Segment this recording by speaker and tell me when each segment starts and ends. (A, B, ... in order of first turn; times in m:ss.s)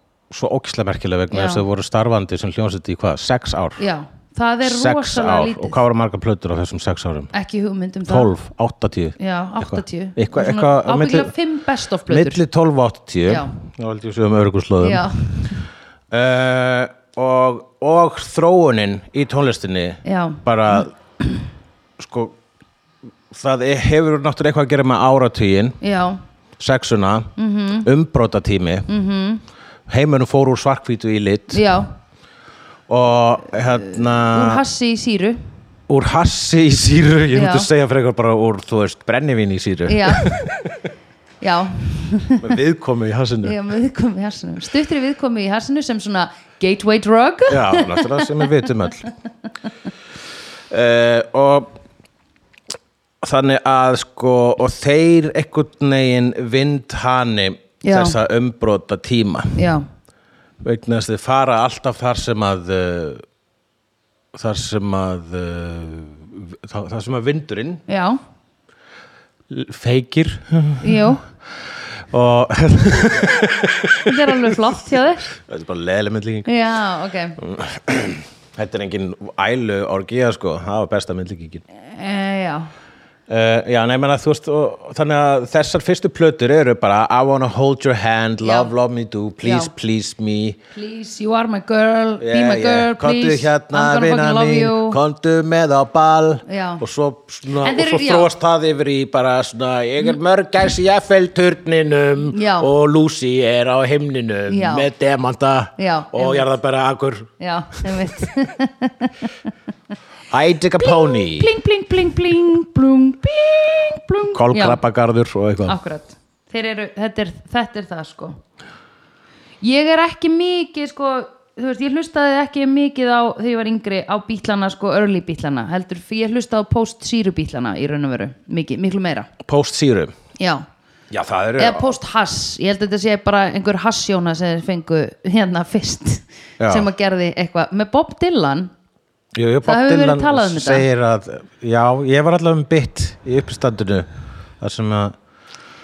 0:00.3-0:03.8 A
0:01.3-0:01.6 B
0:03.8-0:05.8 B
0:04.6-0:07.3 A
0:07.3-0:08.3 B
0:08.0-0:11.3 A
0:09.2-0:12.4 B
0:12.1-0:15.1 A
0:13.3-0:13.5 B
0:14.8-0:15.6 B
0:16.1-0:20.9 A
0:20.0-0:20.8 B
0:22.0-0:22.4 A
0:23.3-0:25.8 A
0:25.8-0:26.2 B
0:26.6-0:27.3 A
0:27.4-0:27.9 B
0:27.8-0:28.9 A
0:28.9-0:29.4 B
0:29.9-0:31.6 A
0:31.5-0:31.9 B
0:32.9-0:34.6 A
0:34.0-0:35.4 B
0:35.9-0:40.7 A
0:37.3-0:37.7 B
0:39.9-0:40.3 B
0:41.4-0:42.5 B
0:42.4-0:43.6 A
0:43.4-0:48.4 B
0:47.5-0:49.0 A
0:50.7-0:51.7 A
0:53.2-0:59.6 A
0:57.8-0:58.2 B
0:59.6-0:59.8 B
1:00.6-1:03.2 A
1:04.3-1:07.8 A
1:07.9-1:08.2 B
1:09.5-1:11.1 A
1:10.8-1:11.2 B
1:12.1-1:14.6 A
1:14.0-1:15.3 B
1:15.3-1:16.5 A
1:16.4-1:17.4 B
1:17.4-1:21.6 A
1:21.9-1:22.7 B
1:23.3-1:30.6 A
1:28.4-1:28.7 B
1:29.4-1:29.7 B
1:30.7-1:35.0 B
1:32.2-1:47.3 A
1:36.4-1:36.8 B
1:37.6-1:38.3 B
1:42.3-1:42.7 B
1:44.5-1:44.9 B
1:45.8-1:46.4 B
1:47.4-1:49.3 B
1:50.3-1:51.5 A
1:50.8-1:54.8 B
1:54.3-1:55.8 A
1:55.6-1:58.4 B
1:59.6-2:09.3 B
2:09.4-2:10.1 A
2:10.4-2:10.6 B
2:11.1-2:12.0 A
2:11.6-2:18.7 B
2:16.6-2:16.9 A
2:19.3-2:24.1 A
2:19.6-2:20.8 B
2:24.6-2:25.2 A